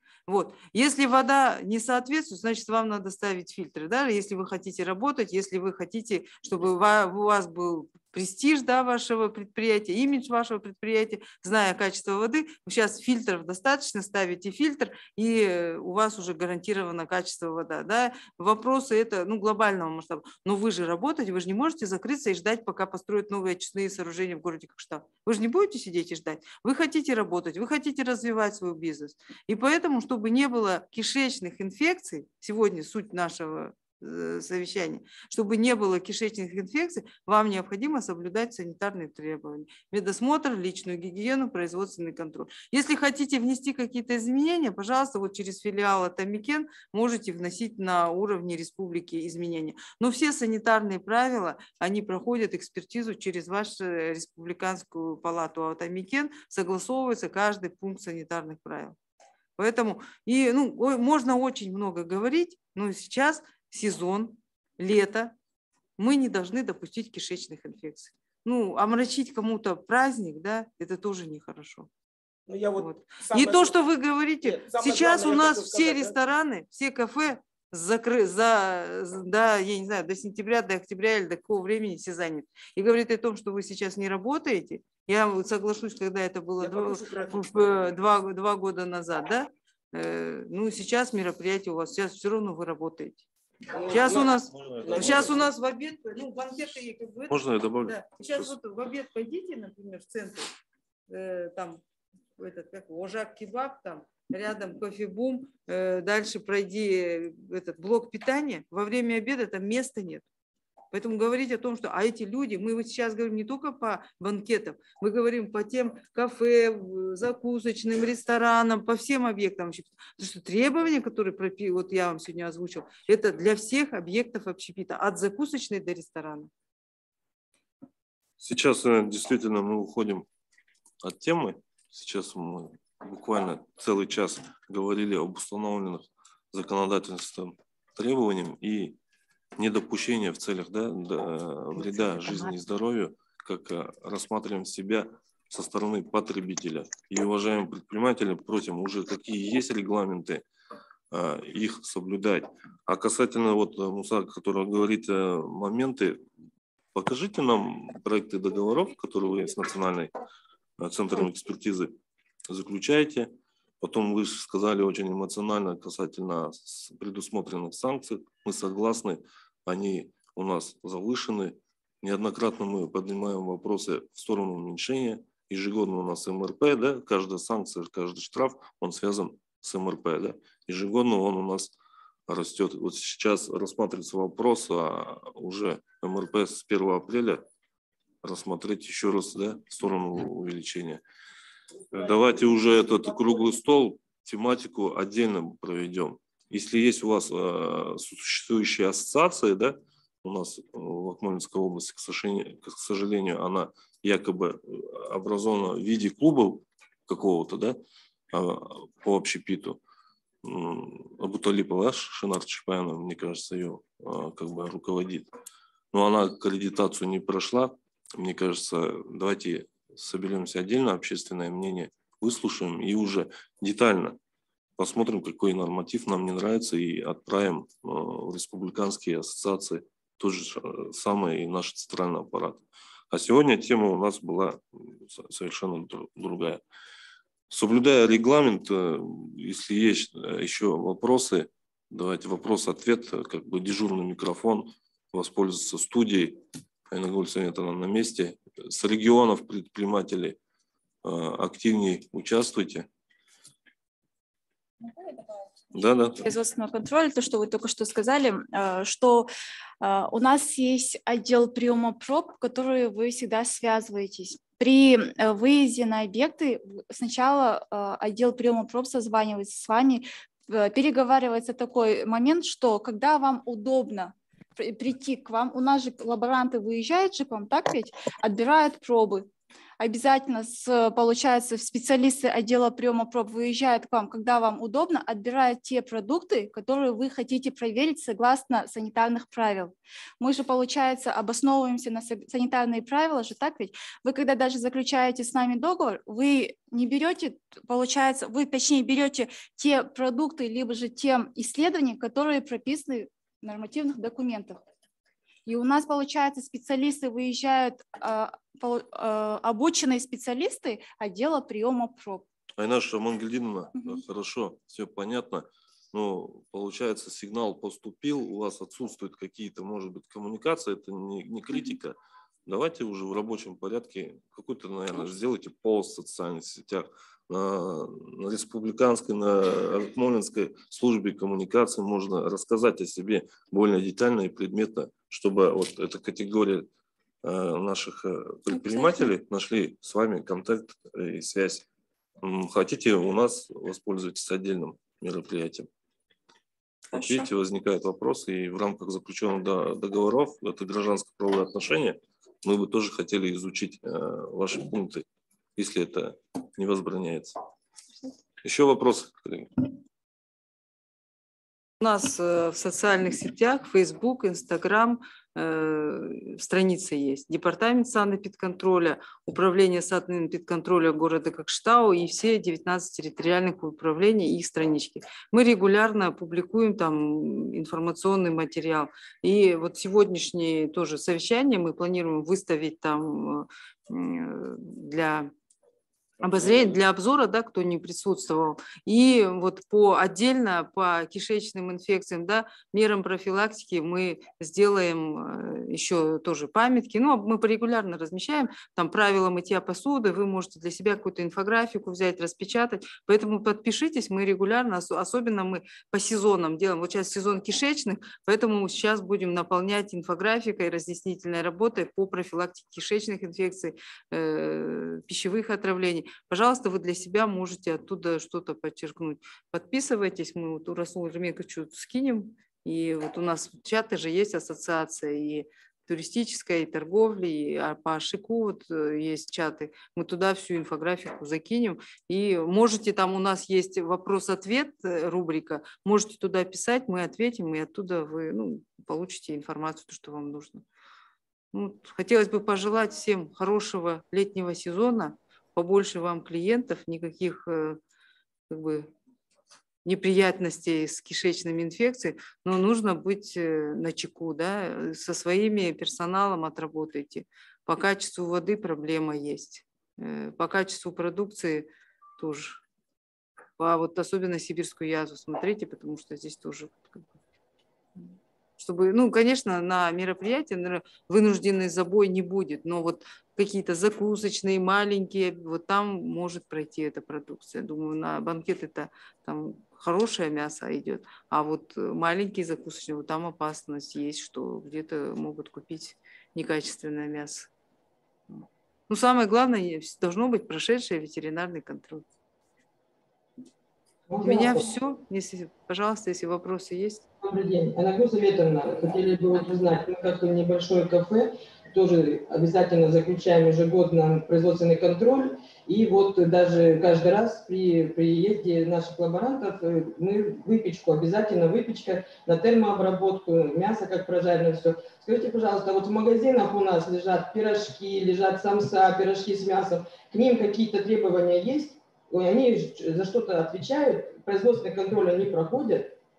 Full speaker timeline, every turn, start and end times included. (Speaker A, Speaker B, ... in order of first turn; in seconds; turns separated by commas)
Speaker A: 0.3-59.0, Speaker A: 59.6-65.3, Speaker A: 66.0-71.9, Speaker B: 72.5-73.8, Speaker A: 72.8-93.2, Speaker B: 74.4-76.2, Speaker B: 86.6-87.9, Speaker B: 93.7-95.5, Speaker A: 93.9-100.5, Speaker C: 93.9-95.5, Speaker C: 97.3-98.5, Speaker A: 101.1-101.8, Speaker A: 102.4-110.2, Speaker A: 110.9-126.5, Speaker C: 128.4-130.2, Speaker C: 131.0-139.0, Speaker C: 139.6-150.4, Speaker C: 151.1-156.2, Speaker C: 156.9-160.1, Speaker C: 160.8-161.9, Speaker C: 162.5-181.8, Speaker C: 182.3-187.4, Speaker C: 188.2-191.0, Speaker B: 191.9-193.6, Speaker C: 191.9-207.8, Speaker C: 208.3-209.8, Speaker C: 210.4-215.3, Speaker C: 215.9-224.2, Speaker C: 224.8-236.6, Speaker C: 237.5-250.4, Speaker C: 251.0-252.9, Speaker D: 255.0-255.2, Speaker C: 255.7-256.2, Speaker D: 256.2-259.3, Speaker D: 259.8-279.3, Speaker D: 279.8-304.6, Speaker D: 305.4-312.2, Speaker C: 312.6-336.7, Speaker D: 313.8-314.0, Speaker C: 337.2-341.6, Speaker D: 338.5-339.0, Speaker C: 342.2-345.7, Speaker C: 346.9-357.4, Speaker C: 358.4-359.6, Speaker A: 361.8-385.3, Speaker A: 386.2-440.6, Speaker A: 441.5-447.8, Speaker A: 448.5-448.9, Speaker A: 449.8-462.6, Speaker A: 463.6-467.2, Speaker A: 467.9-487.5, Speaker A: 488.3-492.1, Speaker E: 494.1-494.7, Speaker A: 494.2-497.0, Speaker E: 497.2-526.0